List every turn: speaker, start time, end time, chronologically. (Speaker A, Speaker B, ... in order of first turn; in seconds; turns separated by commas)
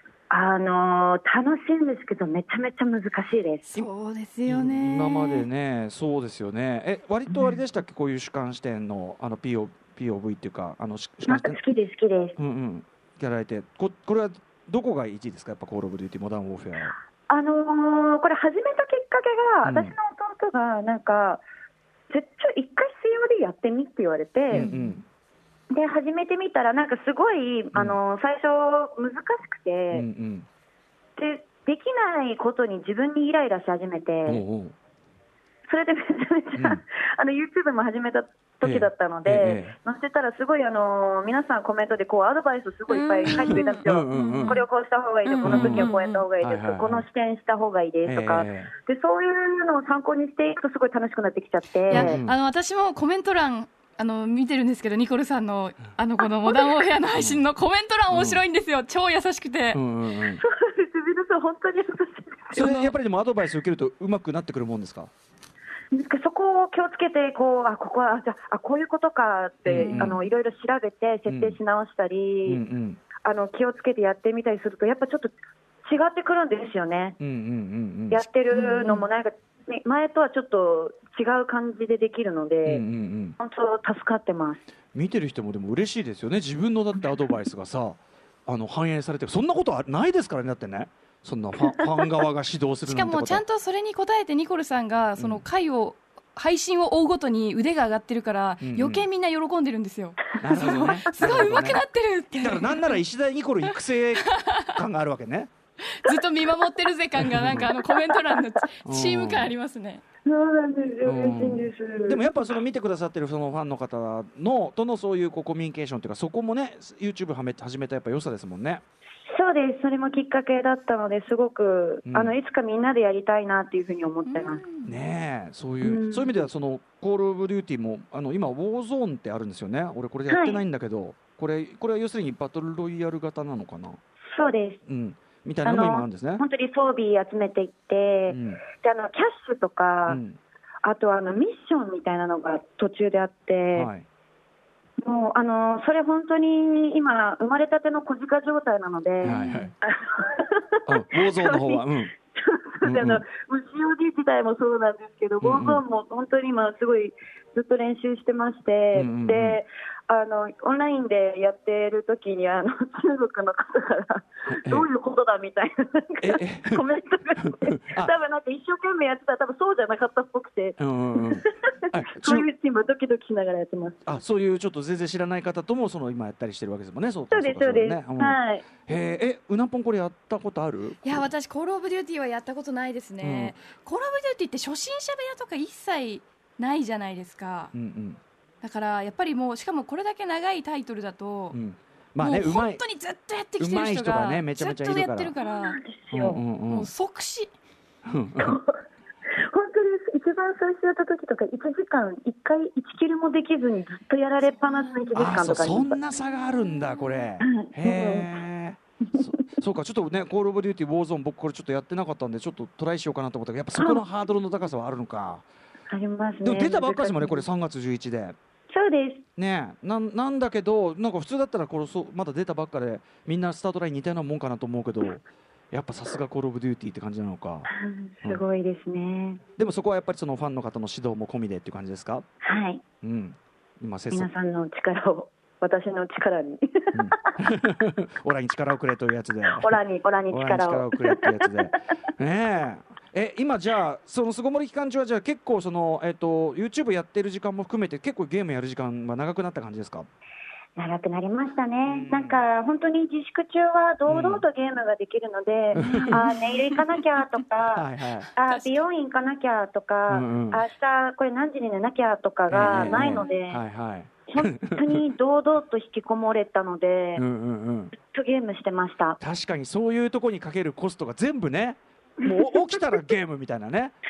Speaker A: 0.3-3.7, Speaker B: 3.7-5.5, Speaker C: 4.5-11.6, Speaker A: 11.2-12.3, Speaker C: 12.4-16.9, Speaker A: 17.3-21.4, Speaker C: 19.6-19.9, Speaker A: 22.1-24.7, Speaker C: 24.5-25.0, Speaker B: 24.5-25.0, Speaker A: 25.7-30.1, Speaker C: 29.9-30.4, Speaker A: 31.1-34.4, Speaker C: 34.2-34.7, Speaker A: 35.7-52.2, Speaker C: 36.5-36.8, Speaker C: 38.6-39.8, Speaker B: 42.9-44.6, Speaker C: 43.3-44.6, Speaker B: 45.2-46.3, Speaker C: 45.4-47.0, Speaker C: 48.0-48.7, Speaker C: 51.9-52.4, Speaker B: 51.9-59.8, Speaker C: 57.1-57.4, Speaker C: 58.1-58.4, Speaker C: 59.7-60.4, Speaker A: 60.3-62.6, Speaker C: 62.5-65.1, Speaker B: 62.5-62.9, Speaker A: 65.9-72.6, Speaker C: 69.6-70.2, Speaker B: 69.7-70.2, Speaker C: 71.3-71.6, Speaker C: 72.4-73.0, Speaker A: 73.2-75.3, Speaker A: 75.8-77.2, Speaker C: 77.2-78.2, Speaker A: 78.1-82.8, Speaker B: 78.5-79.1, Speaker C: 82.6-83.4, Speaker A: 83.4-84.6, Speaker C: 84.9-93.4, Speaker B: 92.9-103.0, Speaker C: 95.2-95.4, Speaker C: 98.6-99.0, Speaker C: 100.4-101.8, Speaker C: 102.4-105.5, Speaker B: 104.2-104.7, Speaker B: 105.9-110.0, Speaker C: 107.2-107.7, Speaker A: 107.7-108.4, Speaker C: 108.8-109.5, Speaker A: 110.2-112.3, Speaker C: 111.0-118.8, Speaker A: 119.3-124.6, Speaker C: 122.0-122.4, Speaker B: 124.2-125.0, Speaker C: 124.8-134.0, Speaker A: 125.8-126.5, Speaker A: 130.3-130.6, Speaker A: 134.3-134.8, Speaker C: 134.8-136.4, Speaker A: 135.6-140.2, Speaker C: 138.3-138.6, Speaker C: 140.1-140.4, Speaker A: 140.8-143.9, Speaker C: 143.7-144.0, Speaker A: 145.0-174.0, Speaker B: 149.2-149.7, Speaker C: 149.2-149.7, Speaker C: 150.8-152.1, Speaker C: 152.8-153.2, Speaker C: 155.4-155.8, Speaker C: 158.9-159.6, Speaker C: 164.5-164.9, Speaker C: 166.2-166.8, Speaker C: 167.4-168.1, Speaker C: 170.8-172.4, Speaker C: 174.1-181.2, Speaker A: 177.3-178.7, Speaker B: 181.0-187.7, Speaker C: 183.2-183.6, Speaker C: 187.7-188.2, Speaker B: 188.6-191.6, Speaker C: 191.5-192.8, Speaker B: 192.2-195.8, Speaker C: 193.6-195.3, Speaker A: 195.4-196.4, Speaker C: 196.1-196.9, Speaker B: 196.7-197.5, Speaker C: 198.0-198.6, Speaker A: 198.4-198.8, Speaker A: 199.3-206.0, Speaker B: 204.7-205.0, Speaker C: 205.1-215.4, Speaker A: 207.4-208.3, Speaker A: 213.8-214.0, Speaker A: 215.9-217.4, Speaker C: 216.4-218.3, Speaker A: 218.7-219.2, Speaker C: 219.4-227.7, Speaker A: 227.7-229.4, Speaker C: 229.6-232.2, Speaker A: 232.4-232.8, Speaker C: 233.0-234.3, Speaker A: 234.1-237.3, Speaker C: 236.9-250.1, Speaker A: 239.5-241.5, Speaker A: 250.8-263.6, Speaker C: 251.8-252.4, Speaker C: 254.1-254.4, Speaker C: 255.7-256.3, Speaker B: 255.7-256.3, Speaker C: 257.7-258.3, Speaker B: 258.4-258.8, Speaker C: 260.1-260.6, Speaker C: 262.5-265.1, Speaker B: 262.6-263.4, Speaker A: 264.3-267.2, Speaker C: 267.1-267.9, Speaker A: 267.9-269.2, Speaker C: 269.2-273.9, Speaker A: 272.2-272.8